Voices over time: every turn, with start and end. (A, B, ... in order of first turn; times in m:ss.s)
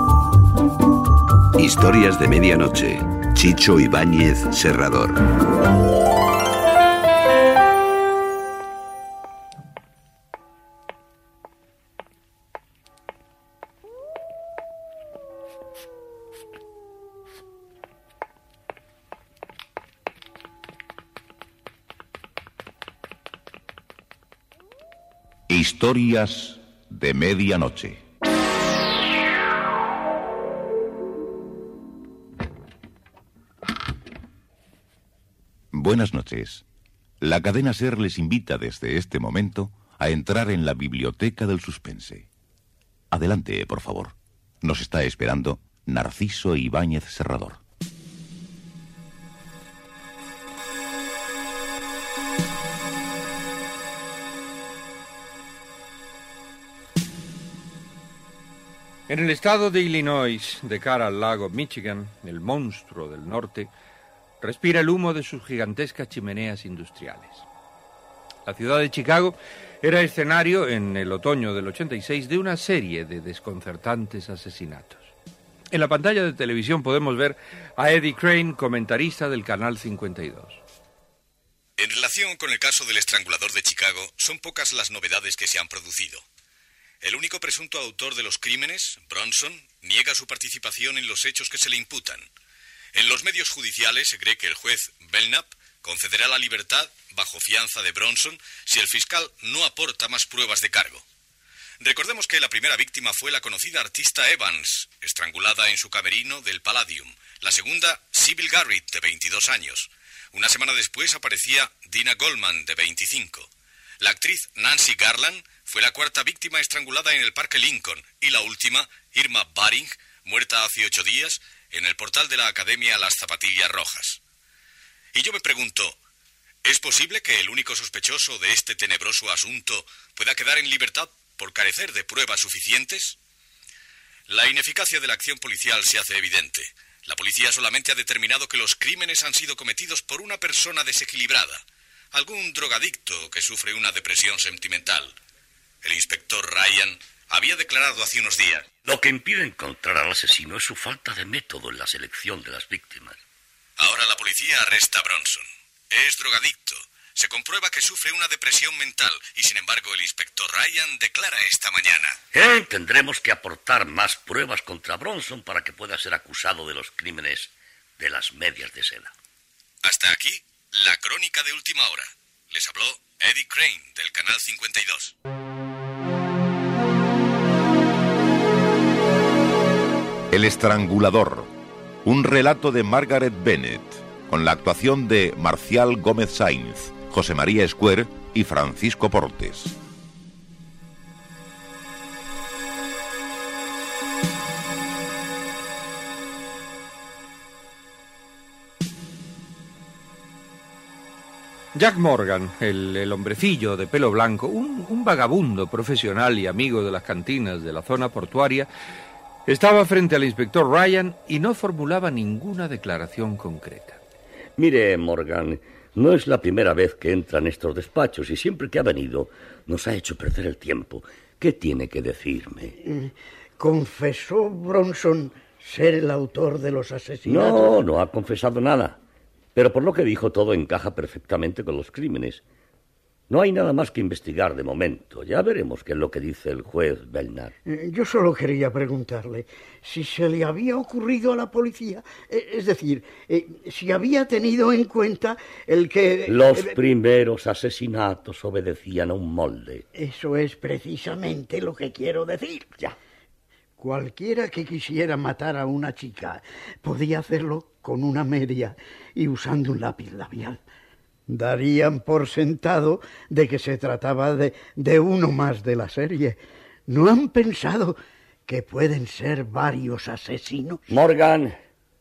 0:01.6-0:05.2 A
0:25.5-0:28.0 B
0:35.7-0:36.6 B
0:37.2-0:42.3 B
0:43.1-0:47.6 B
0:59.1-1:03.7 C
1:04.4-1:07.5 C
1:08.5-1:15.1 C
1:15.7-1:20.6 C
1:21.8-1:26.3 D
1:27.0-1:32.3 D
1:32.9-1:41.0 D
1:41.8-2:04.2 D
2:05.1-2:06.0 D
2:06.6-2:13.2 D
2:14.3-2:25.2 D
2:25.8-2:28.7 D
2:28.9-2:33.2 E
2:33.8-2:42.2 D
2:42.3-2:49.1 E
2:49.8-2:55.2 D
3:00.3-3:01.5 B
3:02.0-3:09.8 B
3:21.7-3:28.7 C
3:29.5-3:34.0 C
3:34.6-3:42.8 E
3:42.8-3:47.9 F
3:47.2-3:49.0 E
3:49.6-3:52.4 E
3:53.3-3:57.5 E
3:57.6-4:06.8 F
4:06.3-4:09.8 E
4:09.9-4:12.7 F
4:13.8-4:20.6 F
4:21.3-4:30.8 F
4:30.9-4:31.6 E